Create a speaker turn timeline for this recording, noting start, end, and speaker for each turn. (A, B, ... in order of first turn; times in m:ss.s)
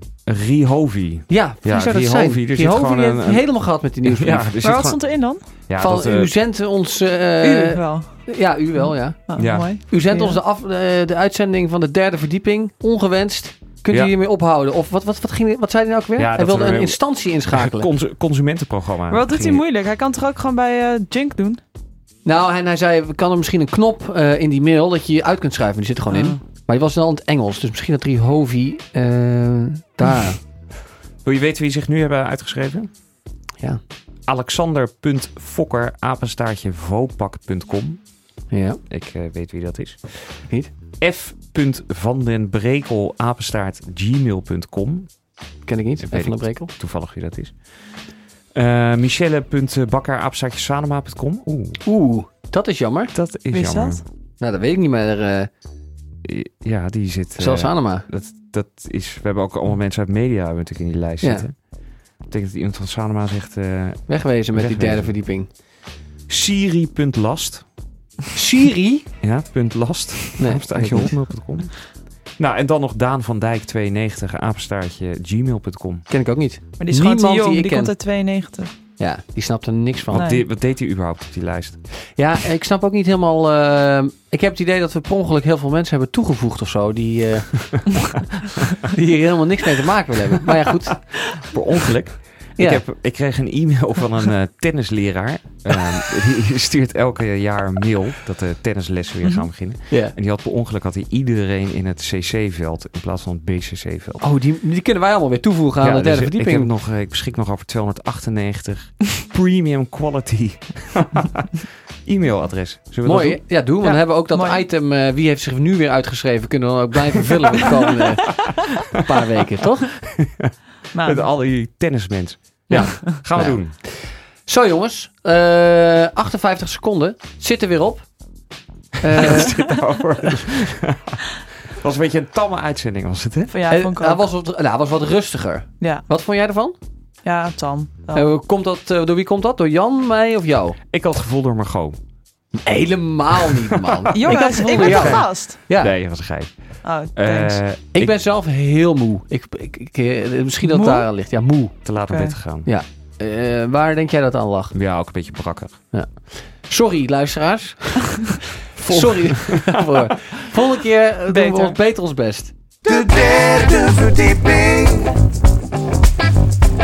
0:00.3-0:03.5 A
0:01.3-0:04.5 B
0:04.0-0:06.3 A
0:04.6-0:05.4 C
0:05.8-0:09.4 B
0:07.4-0:08.3 C
0:08.8-0:10.4 C
0:09.4-0:09.7 A
0:09.9-0:17.9 B
0:16.2-0:19.6 A
0:19.1-0:21.6 C
0:22.2-0:30.4 B
0:26.1-0:26.4 C
0:31.2-0:32.9 A
0:34.3-0:38.0 A
0:38.5-0:38.8 B
0:38.9-0:40.4 A
0:41.0-0:45.1 A
0:45.7-0:46.7 B
0:46.0-0:47.8 A
0:48.5-0:51.8 A
0:51.8-0:53.1 B
0:53.1-0:54.0 A
0:53.5-0:54.0 C
0:54.4-0:55.5 B
0:56.2-1:01.6 A
0:57.4-0:58.1 B
1:01.2-1:01.5 B
1:02.2-1:05.1 A
1:04.1-1:05.5 B
1:06.3-1:07.7 A
1:08.3-1:09.1 B
1:09.2-1:16.1 A
1:10.4-1:11.2 B
1:16.1-1:17.9 B
1:16.8-1:18.7 C
1:19.0-1:20.2 B
1:20.1-1:21.8 A
1:20.1-1:20.4 C
1:22.2-1:28.1 B
1:28.8-1:31.2 B
1:31.3-1:44.2 A
1:39.9-1:40.2 B
1:44.2-1:46.7 B
1:45.8-1:53.4 A
1:53.0-1:59.9 B
1:53.8-1:54.6 C
2:00.2-2:03.8 A
2:00.9-2:01.3 C
2:02.7-2:08.1 B
2:09.0-2:09.6 B
2:09.1-2:13.6 A
2:13.5-2:14.2 C
2:13.7-2:16.8 B
2:17.2-2:18.3 C
2:18.1-2:20.8 B
2:20.9-2:22.0 A
2:22.6-2:25.9 B
2:23.8-2:28.1 A
2:24.1-2:25.6 C
2:26.8-2:27.6 C
2:27.9-2:31.8 B
2:30.6-2:31.1 C
2:31.8-2:32.7 A
2:32.1-2:32.4 C
2:32.6-2:34.7 B
2:34.7-2:35.8 A
2:35.9-2:44.9 B
2:38.8-2:40.3 A
2:41.3-2:41.8 C